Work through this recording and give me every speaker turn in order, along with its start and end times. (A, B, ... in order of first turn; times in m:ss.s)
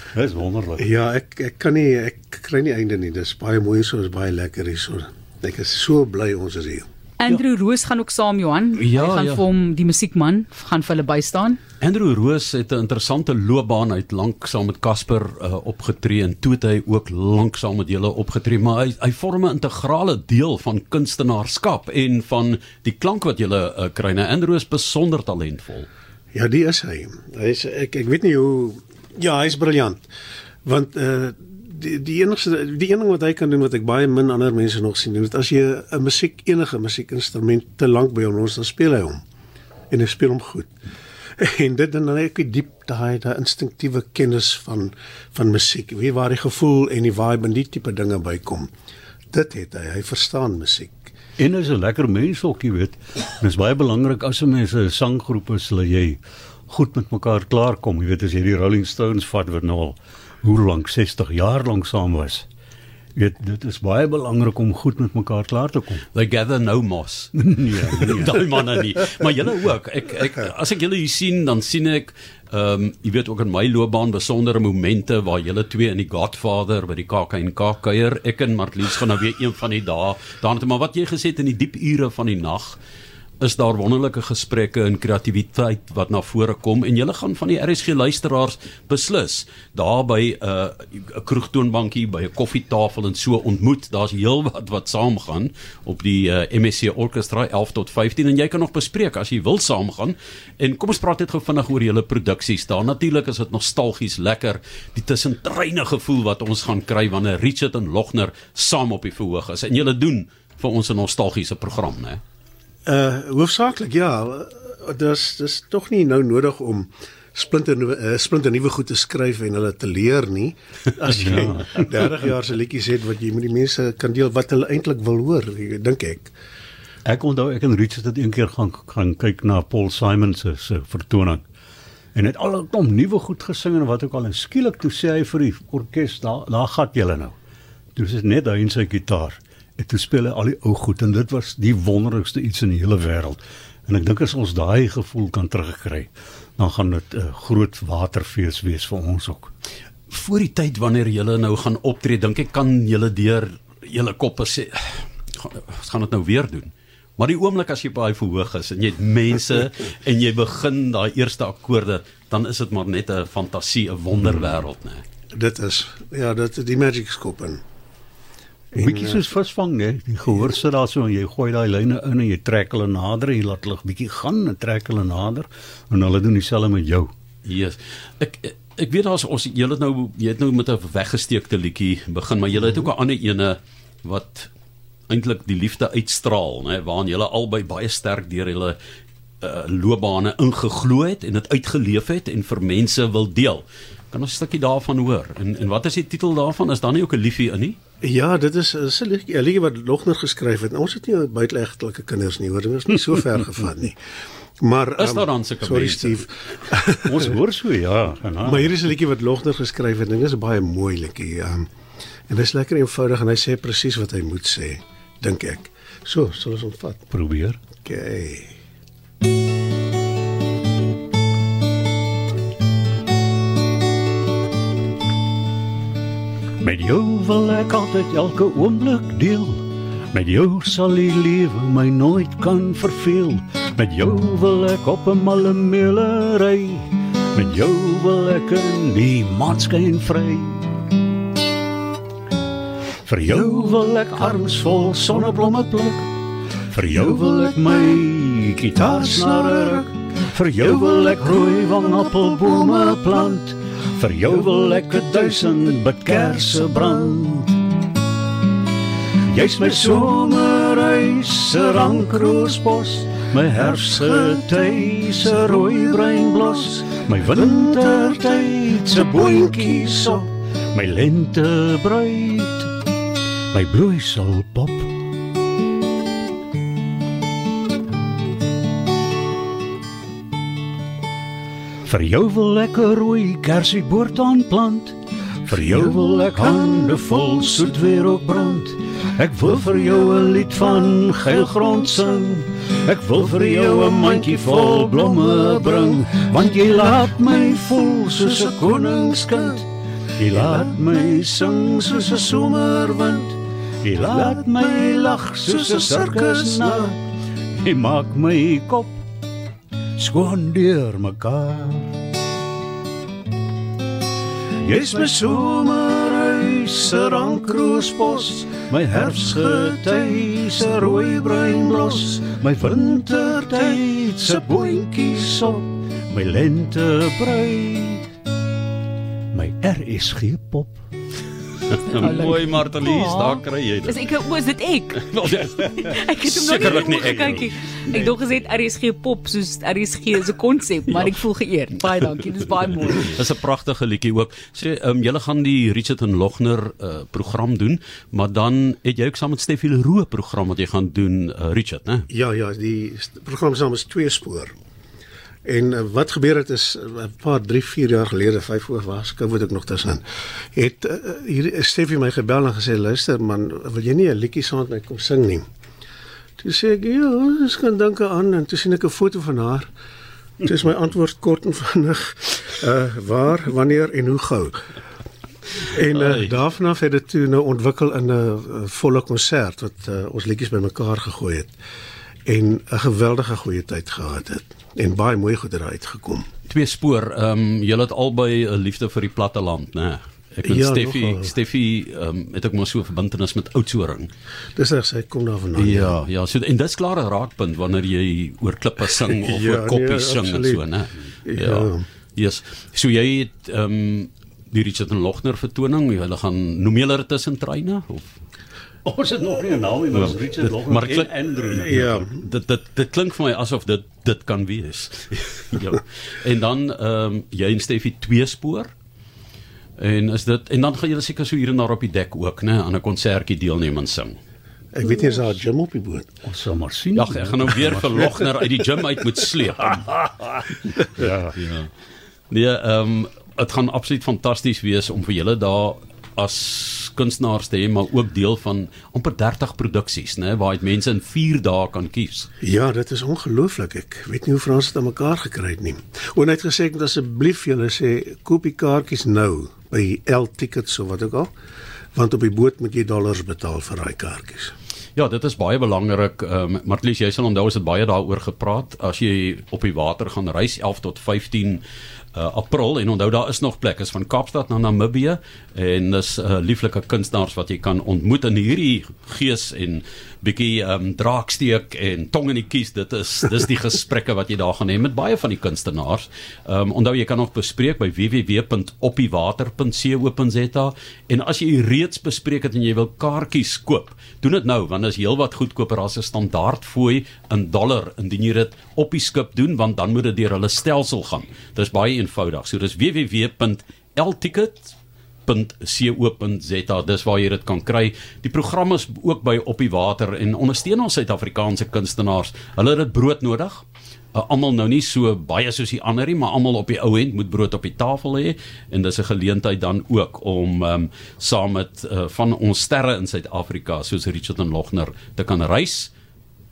0:00.1-0:00.8 A
0:00.8-0:06.8 B
0:07.2-0:11.6 C
0:08.8-0:09.4 D
0:11.8-0:25.9 D
0:26.3-0:30.0 B
0:30.6-0:39.2 B
0:39.9-0:40.7 B
0:41.4-0:48.7 B
0:49.3-0:51.1 B
0:51.4-1:02.4 A
1:03.2-1:06.0 A
1:06.1-1:22.8 D
1:07.4-1:08.4 A
1:23.4-1:52.2 D
1:52.8-2:06.3 B
2:07.0-2:11.4 A
2:12.1-2:17.3 A
2:18.0-2:29.5 A
2:30.1-2:45.0 D
2:45.3-2:47.6 B
2:48.7-2:57.1 A
2:48.7-2:49.2 B
2:57.4-3:04.5 D
3:05.1-3:08.8 D
3:09.4-3:17.8 D
3:18.0-3:24.0 B
3:24.6-3:27.2 B
3:25.0-3:26.2 D
3:27.0-3:28.7 A
3:28.4-3:31.7 B
3:32.3-3:37.0 B
3:37.1-3:37.6 A
3:37.8-3:38.5 B
3:46.6-4:00.7 A
4:03.0-4:06.1 A
4:06.7-4:17.6 A
4:09.2-4:09.8 B
4:19.3-4:32.7 A
4:33.5-4:34.9 A
4:41.8-5:07.0 A
5:05.4-5:06.9 B
5:07.5-5:09.0 A
5:10.0-5:12.0 A
5:14.6-5:28.1 A
5:14.8-5:17.2 B
5:17.7-5:18.5 B
5:29.3-5:30.8 A
5:31.7-5:34.0 D
5:31.9-5:43.2 C
5:35.0-5:38.0 D
5:36.6-5:37.4 A
5:42.9-5:52.0 D
5:52.1-5:54.5 B
5:55.4-6:00.0 B
6:00.5-6:05.4 B
6:06.4-6:09.7 B
6:10.4-6:14.6 B
6:15.6-6:21.5 B
6:22.2-6:26.2 B
6:26.5-6:34.1 D
6:30.4-6:31.3 B
6:34.6-6:36.0 B
6:35.6-6:48.1 D
6:39.0-6:40.6 B
6:41.2-6:41.8 B
6:48.8-6:51.9 A
6:49.9-6:58.7 D
6:51.5-6:52.1 B
6:59.8-7:04.2 D
7:04.7-7:06.1 B
7:06.2-7:08.0 A
7:06.9-7:10.0 D
7:10.1-7:11.3 A
7:11.3-7:11.7 D
7:12.3-7:22.3 D
7:22.4-7:31.3 B
7:31.9-7:34.5 B
7:35.0-7:41.6 D
7:42.1-8:14.7 D
8:15.3-8:35.9 D